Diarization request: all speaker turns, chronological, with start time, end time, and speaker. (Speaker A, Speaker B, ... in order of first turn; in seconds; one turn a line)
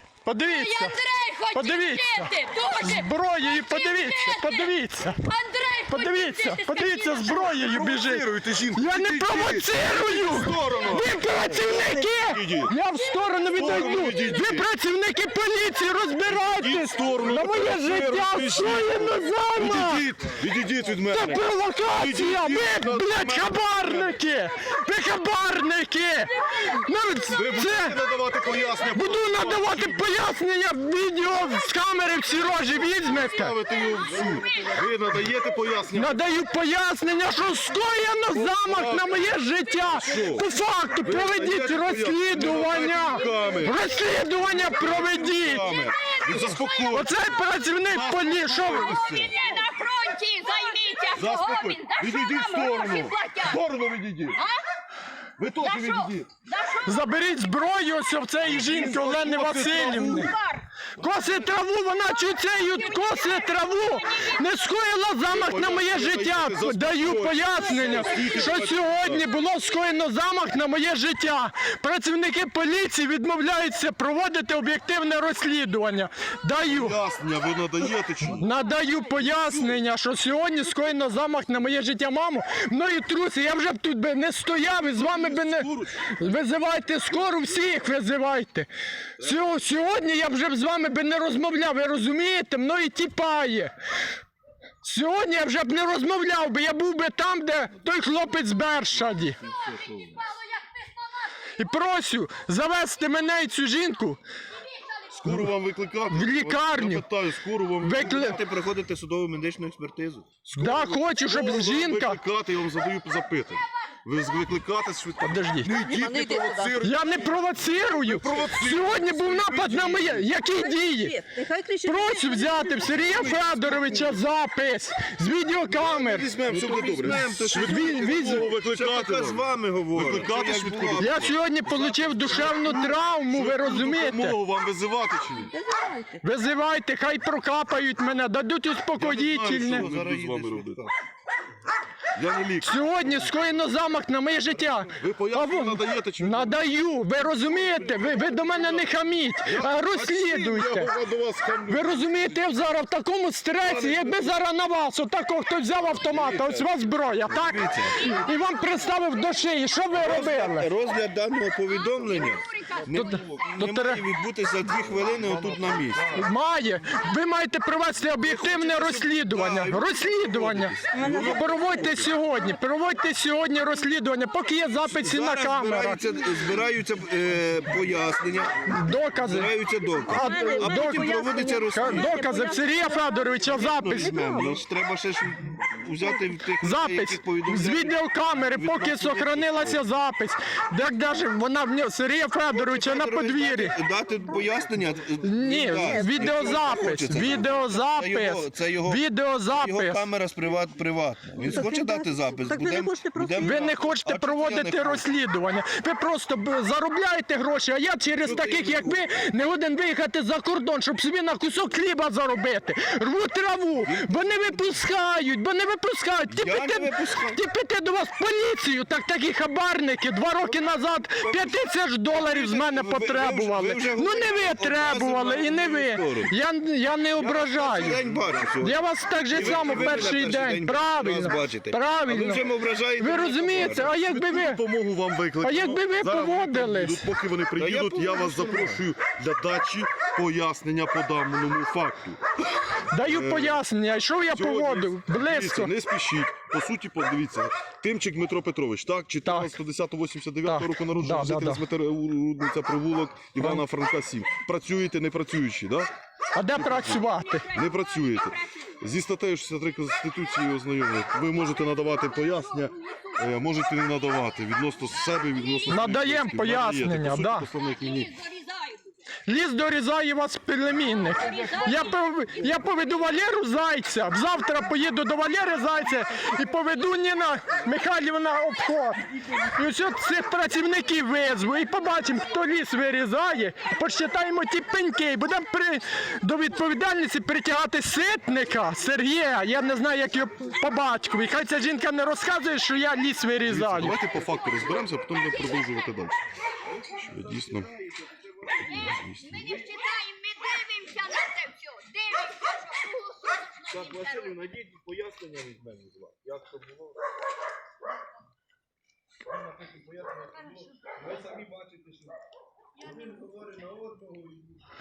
Speaker A: 0.2-1.0
Speaker B: 0.5-4.7
Speaker A: 1.5-5.2
Speaker B: 5.2-7.5
Speaker A: 5.9-20.1
Speaker C: 7.3-12.8
Speaker C: 13.6-14.7
Speaker C: 16.3-24.1
Speaker A: 21.1-28.0
Speaker C: 27.3-30.1
Speaker A: 28.9-33.6
Speaker C: 33.0-36.2
Speaker B: 33.5-34.8
Speaker A: 35.9-45.7
Speaker C: 38.3-39.2
Speaker C: 39.9-40.5
Speaker C: 41.0-43.9
Speaker C: 44.7-47.4
Speaker B: 45.0-47.1
Speaker A: 46.9-49.0
Speaker C: 47.9-49.7
Speaker B: 48.5-53.6
Speaker C: 51.1-54.4
Speaker B: 54.4-54.6
Speaker C: 55.4-56.3
Speaker B: 55.6-57.1
Speaker A: 56.9-60.3
Speaker C: 58.4-60.4
Speaker B: 60.0-60.6
Speaker A: 61.0-77.0
Speaker B: 62.2-64.6
Speaker C: 65.3-69.2
Speaker B: 67.8-69.2
Speaker C: 76.7-78.5
Speaker A: 78.3-93.7
Speaker C: 79.4-79.8
Speaker C: 84.7-86.3
Speaker C: 87.1-87.4
Speaker C: 89.2-89.5
Speaker A: 94.8-99.4
Speaker B: 99.5-101.3
Speaker D: 99.5-100.2
Speaker A: 101.6-104.2
Speaker C: 105.1-108.4
Speaker A: 106.1-107.1
Speaker A: 107.8-108.4
Speaker D: 108.0-110.3
Speaker C: 110.5-120.3
Speaker A: 110.5-112.2
Speaker A: 115.2-115.8
Speaker E: 115.8-116.8
Speaker A: 116.8-121.2
Speaker E: 120.5-123.4
Speaker A: 121.8-126.3
Speaker C: 123.2-123.6
Speaker D: 123.7-124.1
Speaker C: 125.3-135.6
Speaker D: 126.1-132.2
Speaker A: 127.6-128.5
Speaker A: 131.0-134.4
Speaker E: 135.5-136.2
Speaker A: 136.2-139.9
Speaker C: 139.0-140.8
Speaker D: 139.6-140.9
Speaker C: 142.2-143.3
Speaker A: 142.6-150.9
Speaker C: 144.9-146.7
Speaker C: 147.6-148.9
Speaker C: 149.4-152.4
Speaker A: 151.7-160.7
Speaker C: 153.6-154.4
Speaker C: 155.8-156.7
Speaker D: 157.3-158.1
Speaker B: 158.1-159.1
Speaker D: 159.9-166.2
Speaker B: 161.7-163.5
Speaker A: 162.9-164.1
Speaker A: 166.1-176.0
Speaker D: 168.2-172.1
Speaker E: 170.9-172.0
Speaker C: 171.0-171.5
Speaker D: 174.8-182.2
Speaker A: 178.7-184.4
Speaker E: 180.1-184.6
Speaker D: 183.4-189.8
Speaker A: 186.6-193.8
Speaker D: 192.5-205.1
Speaker A: 195.2-200.0
Speaker E: 195.8-196.7
Speaker E: 201.3-203.6
Speaker A: 203.4-228.0
Speaker D: 208.2-209.0
Speaker D: 213.8-214.8
Speaker D: 216.3-217.4
Speaker D: 221.2-226.3
Speaker D: 227.2-228.8
Speaker A: 228.6-234.6
Speaker D: 229.3-233.9
Speaker C: 229.6-230.2
Speaker C: 233.7-243.6
Speaker A: 235.4-237.1
Speaker D: 237.6-238.8
Speaker A: 242.9-245.7
Speaker C: 244.3-255.9
Speaker A: 249.2-249.5
Speaker A: 250.5-251.6
Speaker A: 256.3-257.5
Speaker C: 256.5-268.1
Speaker B: 257.1-258.8
Speaker B: 261.9-263.2
Speaker B: 265.0-265.9
Speaker A: 265.7-267.5
Speaker B: 267.7-269.0
Speaker A: 269.3-294.0
Speaker B: 271.1-272.0
Speaker C: 293.4-296.3
Speaker D: 296.8-298.6
Speaker C: 297.0-297.7
Speaker C: 298.7-299.5
Speaker B: 298.7-304.4
Speaker D: 299.4-299.7
Speaker D: 303.7-307.0
Speaker D: 309.3-312.2
Speaker D: 312.8-314.6